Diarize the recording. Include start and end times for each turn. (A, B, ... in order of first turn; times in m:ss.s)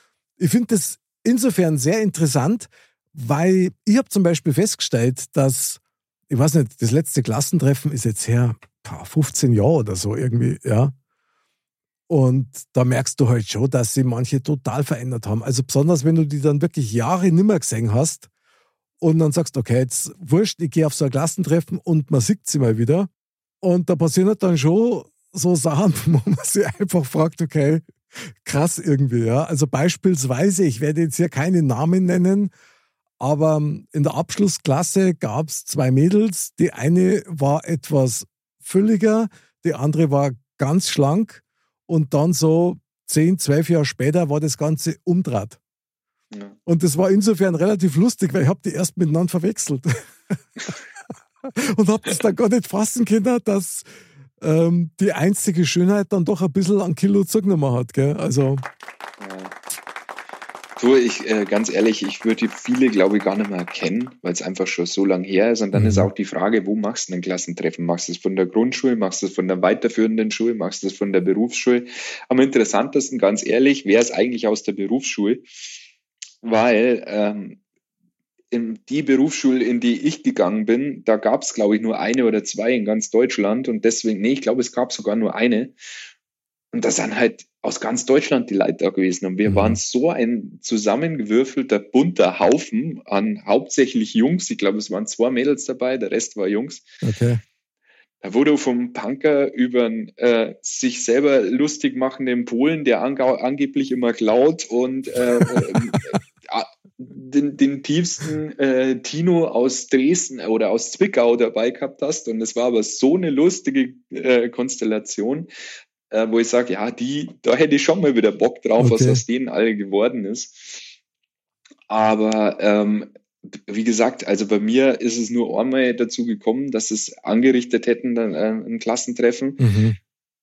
0:00.4-0:10.9 A
0:12.1-0:18.3 A
0:19.0-0:23.1 A
0:23.6-0:27.9 A
0:28.4-0:32.5 A
0:33.2-0:45.6 A
0:46.7-0:50.7 A
0:51.4-0:53.9 A
0:54.4-0:58.6 A
0:59.2-0:59.6 B
1:00.8-1:15.5 B
1:05.8-1:06.1 A
1:16.4-1:17.6 B
1:18.5-1:25.7 B
1:26.7-1:36.9 B
1:29.4-1:29.8 A
1:37.0-1:37.4 A
1:38.2-1:55.5 B
1:56.1-2:00.9 B
1:58.8-1:59.2 A
2:01.9-2:09.6 B
2:09.6-2:10.0 A